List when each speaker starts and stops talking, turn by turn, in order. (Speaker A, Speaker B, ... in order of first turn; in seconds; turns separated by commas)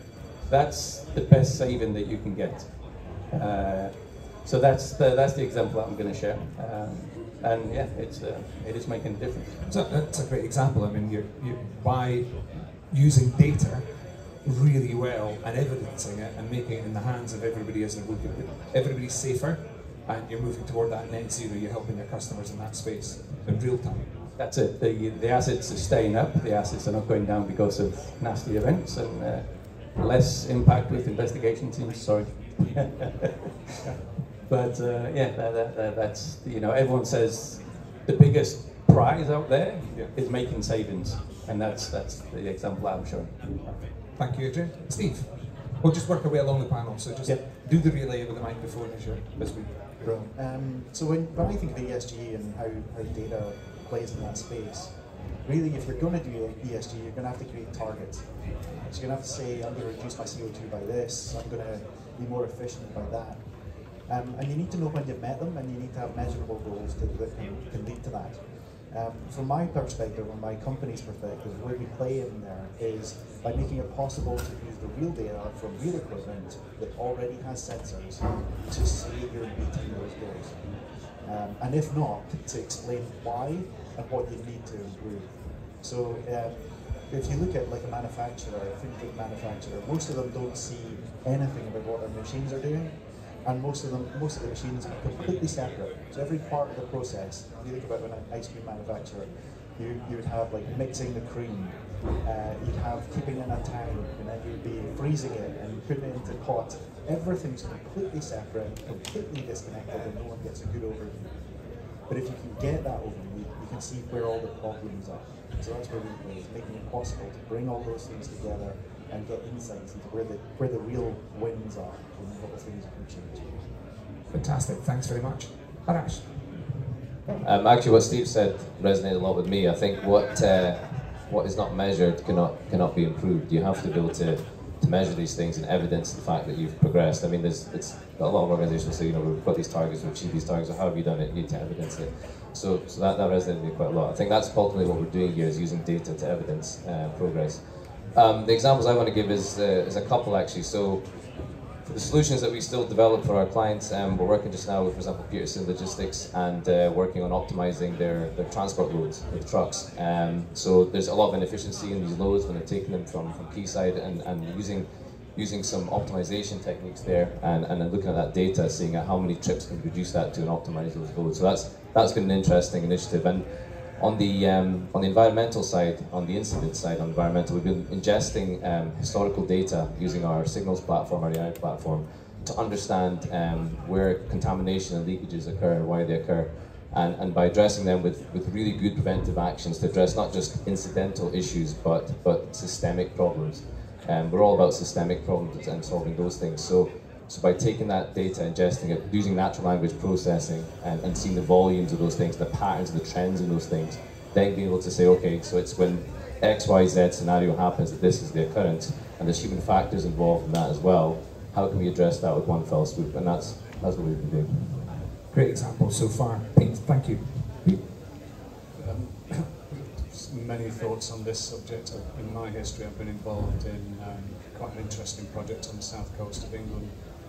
Speaker A: 0.5-9.6, Speaker B: 9.7-24.1, Speaker A: 24.4-33.8, Speaker A: 34.5-43.6, Speaker B: 43.6-50.0, Speaker C: 50.0-63.5, Speaker C: 64.0-111.3, Speaker C: 112.1-123.5, Speaker B: 124.3-126.3, Speaker D: 127.4-214.8, Speaker B: 215.3-217.8, Speaker E: 218.8-226.9